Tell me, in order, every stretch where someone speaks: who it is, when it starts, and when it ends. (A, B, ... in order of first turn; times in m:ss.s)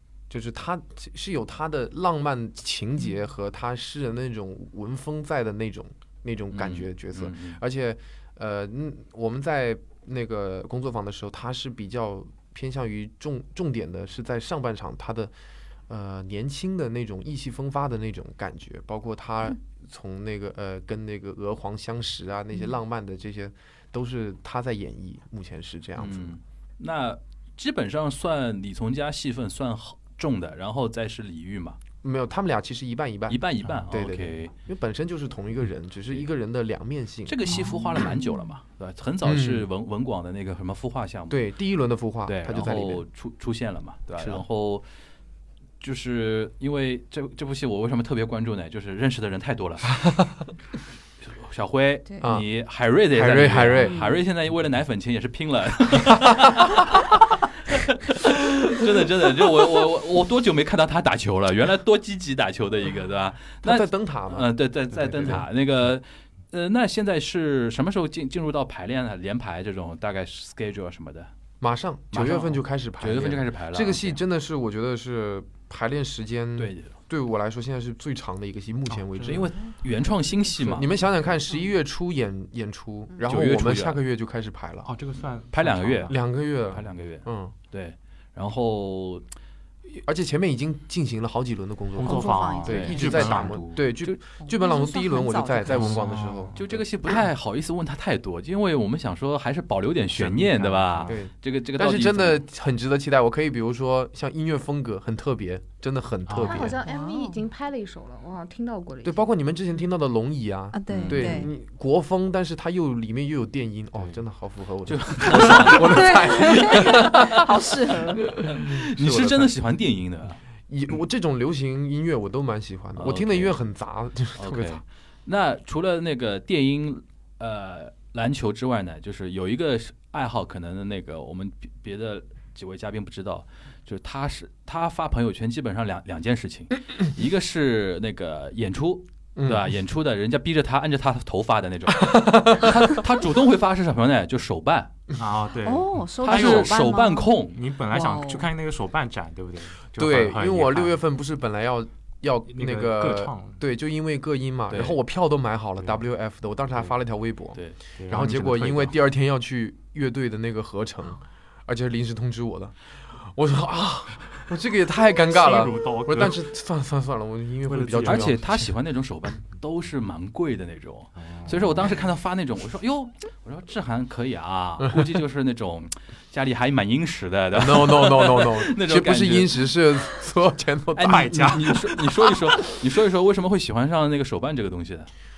0:00.3-0:15.3 A
0:06.5-0:07.6 B
0:15.9-0:26.4 A
0:26.0-0:31.8 B
0:32.0-0:37.4 A
0:33.3-0:34.5 B
0:37.3-0:41.5 B
0:37.5-0:38.3 C
0:39.2-0:39.7 A
0:41.3-0:43.0 A
0:42.3-0:44.8 B
0:44.2-0:44.4 A
0:45.8-0:49.9 B
0:51.2-1:11.3 B
0:52.2-0:52.5 A
0:53.1-0:54.0 A
0:53.8-0:54.2 C
1:03.6-1:04.5 A
1:05.0-1:05.4 A
1:11.6-1:19.5 A
1:12.1-1:14.2 B
1:16.6-1:17.0 B
1:18.9-1:19.6 D
1:19.2-1:20.8 B
1:20.6-1:24.9 A
1:23.3-1:24.0 B
1:24.8-1:26.2 D
1:25.5-1:26.2 B
1:26.1-1:27.5 A
1:26.7-1:29.2 B
1:30.0-1:36.8 A
1:32.0-1:33.8 D
1:32.0-1:33.3 C
1:32.7-1:33.4 B
1:34.4-1:36.2 C
1:35.7-1:36.6 D
1:36.6-1:42.4 B
1:40.1-1:41.2 D
1:41.0-1:46.8 A
1:46.3-1:46.7 D
1:46.4-1:49.3 E
1:46.8-1:47.4 C
1:49.0-1:57.4 A
1:50.7-1:51.5 C
1:50.9-1:51.5 B
1:53.9-1:54.2 D
1:54.9-1:57.2 B
1:55.8-1:58.2 C
1:58.1-1:59.5 A
1:58.4-2:00.4 B
2:00.7-2:04.8 A
2:03.0-2:03.6 B
2:04.4-2:24.9 B
2:19.4-2:19.7 A
2:22.0-2:23.0 A
2:25.2-2:31.0 D
2:25.6-2:27.3 C
2:26.2-2:27.6 B
2:27.9-2:28.5 C
2:30.0-2:48.7 A
2:32.5-2:33.6 D
2:34.7-2:35.0 B
2:35.8-2:36.0 D
2:38.0-2:39.0 D
2:45.3-2:46.4 D
2:47.6-2:48.7 D
2:48.0-2:59.7 B
2:51.2-2:52.0 D
2:57.5-3:01.6 A
3:01.0-3:05.1 B
3:01.0-3:02.0 D